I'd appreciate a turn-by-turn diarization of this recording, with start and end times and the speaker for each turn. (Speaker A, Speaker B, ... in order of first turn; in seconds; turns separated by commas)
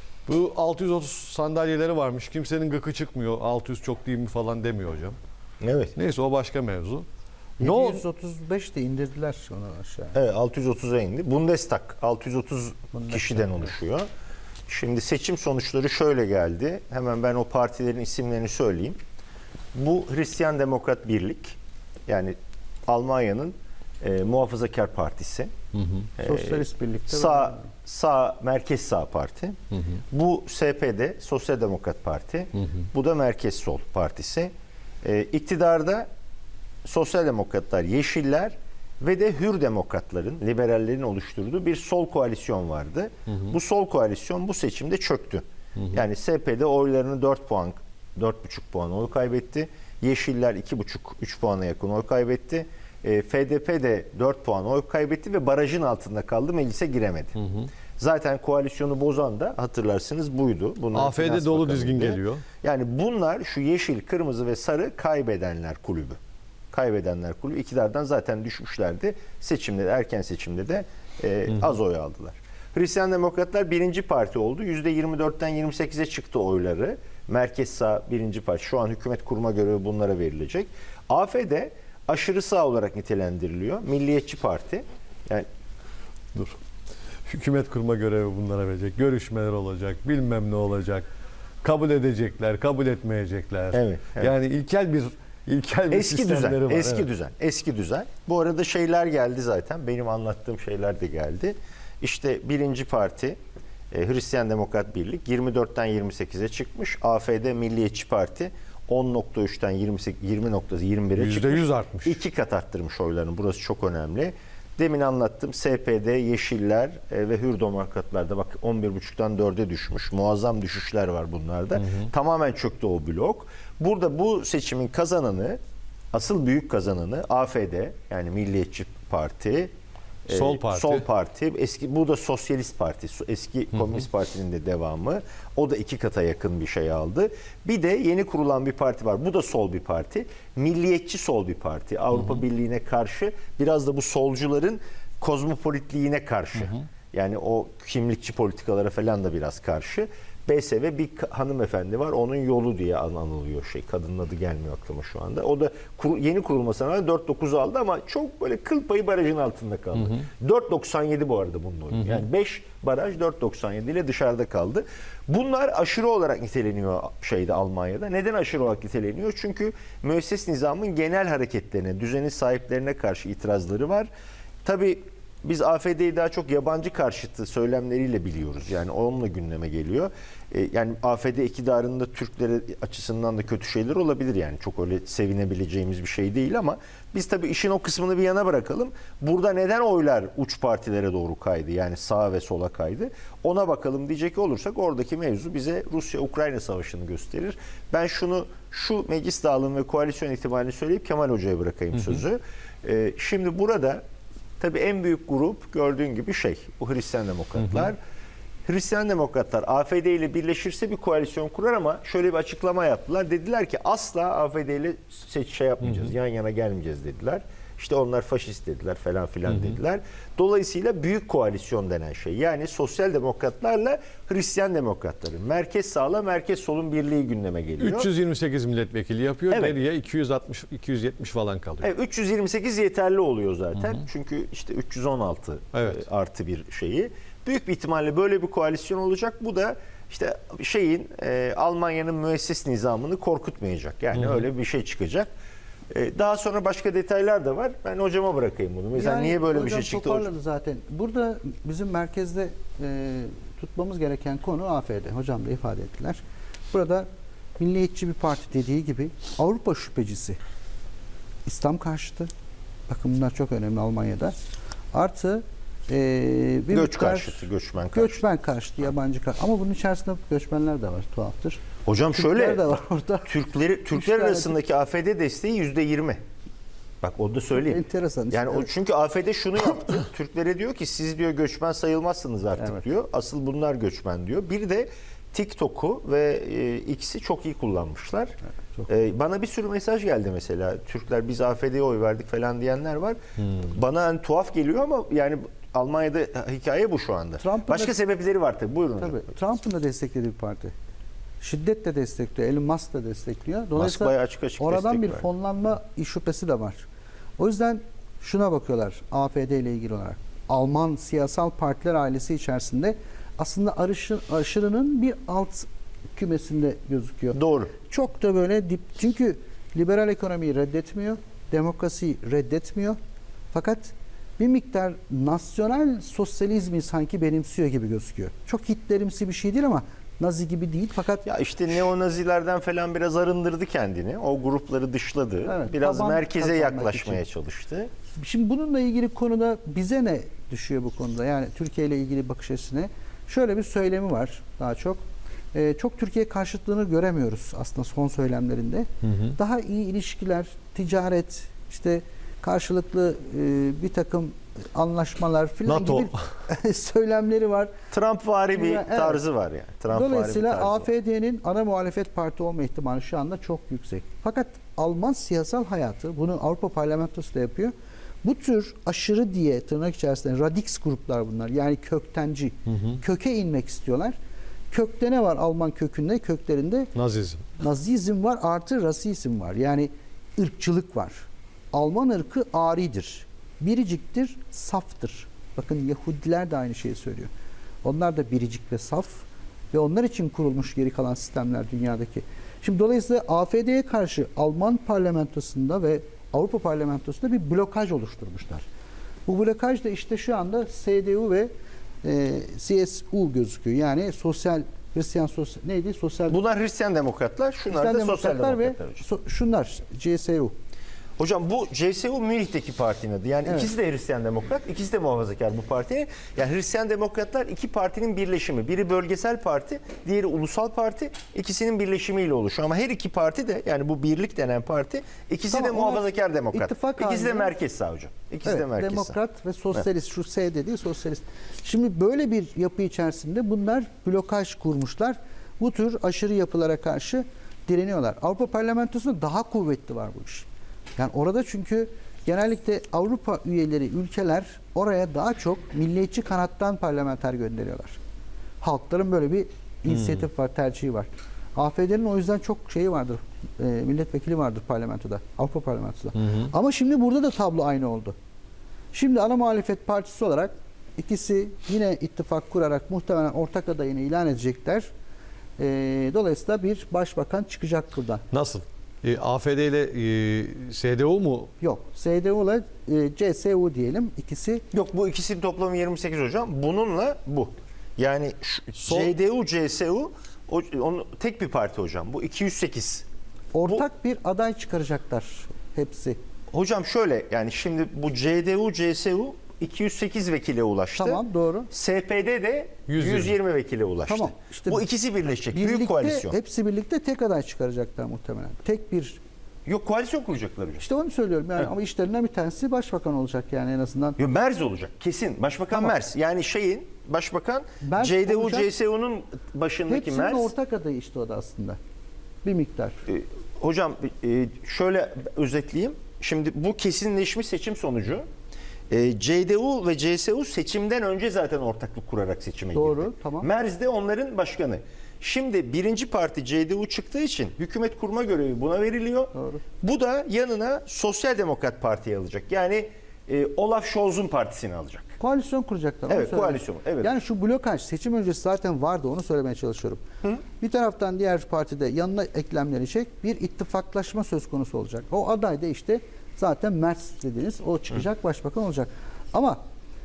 Speaker A: 0.3-5.2, Speaker B: 5.6-5.9, Speaker A: 6.0-7.1, Speaker C: 7.6-10.2, Speaker A: 7.6-8.0, Speaker B: 10.1-14.1, Speaker C: 12.9-13.4, Speaker B: 14.7-19.0, Speaker B: 19.8-21.6, Speaker B: 22.1-22.4, Speaker B: 22.9-25.5, Speaker A: 25.7-26.1, Speaker B: 26.2-29.6, Speaker C: 26.2-27.7, Speaker B: 30.1-34.5, Speaker B: 35.0-36.1, Speaker B: 36.9-57.4, Speaker A: 57.4-57.7, Speaker B: 58.0-66.2, Speaker A: 60.9-62.4, Speaker B: 66.7-85.5, Speaker A: 87.3-91.1, Speaker A: 91.6-97.1, Speaker B: 93.7-94.3, Speaker B: 95.9-103.4, Speaker B: 103.9-125.6, Speaker A: 111.2-112.2, Speaker B: 126.1-129.7, Speaker B: 130.3-174.1, Speaker A: 130.3-131.0, Speaker A: 161.9-162.2, Speaker B: 174.6-204.0, Speaker B: 204.6-208.0, Speaker A: 207.6-207.9, Speaker B: 208.7-228.1, Speaker A: 215.8-216.1, Speaker A: 219.5-219.8, Speaker A: 227.8-231.9, Speaker B: 229.5-229.8, Speaker B: 231.8-245.3, Speaker A: 235.8-236.0, Speaker A: 244.1-244.4, Speaker B: 245.9-250.3, Speaker C: 248.9-257.1, Speaker C: 257.6-260.4, Speaker C: 261.4-262.3, Speaker C: 262.9-264.3, Speaker C: 264.9-271.6, Speaker B: 266.7-268.2, Speaker B: 271.9-272.7, Speaker C: 272.1-273.3, Speaker B: 273.3-276.2, Speaker C: 273.9-274.6, Speaker B: 277.0-288.3, Speaker C: 277.6-278.7, Speaker B: 288.9-299.3, Speaker C: 297.4-297.9, Speaker C: 299.0-300.7, Speaker C: 301.4-306.9, Speaker B: 303.8-305.3, Speaker C: 307.4-323.0, Speaker B: 317.3-317.7, Speaker C: 323.5-331.3, Speaker B: 331.2-337.9, Speaker C: 335.4-337.2, Speaker C: 338.2-345.0, Speaker C: 345.5-357.7, Speaker A: 349.0-349.4, Speaker A: 355.6-356.1, Speaker B: 357.9-360.9, Speaker C: 358.5-359.2, Speaker C: 359.9-374.2, Speaker A: 372.7-373.0, Speaker C: 374.7-376.9, Speaker A: 376.9-377.5, Speaker C: 377.6-387.3, Speaker C: 387.8-398.7, Speaker C: 399.3-401.5, Speaker C: 402.0-406.4, Speaker B: 406.3-409.0, Speaker C: 407.7-410.5, Speaker B: 411.2-429.2, Speaker C: 425.5-427.5, Speaker C: 428.4-448.0, Speaker C: 448.6-458.1, Speaker C: 458.9-464.9, Speaker C: 465.6-468.2, Speaker A: 468.3-471.5, Speaker C: 471.6-474.6, Speaker B: 474.7-483.1, Speaker A: 478.8-479.1, Speaker C: 483.5-486.2, Speaker B: 486.5-496.4, Speaker C: 491.0-491.7, Speaker A: 492.9-493.3, Speaker C: 494.1-494.9, Speaker C: 495.5-499.2, Speaker B: 499.6-500.8, Speaker C: 500.8-504.2, Speaker B: 504.2-510.5, Speaker C: 507.8-508.7, Speaker C: 509.9-511.8, Speaker C: 512.4-513.0, Speaker B: 513.1-518.2, Speaker B: 518.9-535.1, Speaker C: 522.8-523.5, Speaker C: 529.3-529.6, Speaker C: 535.2-540.0, Speaker B: 536.1-537.1, Speaker C: 540.6-549.6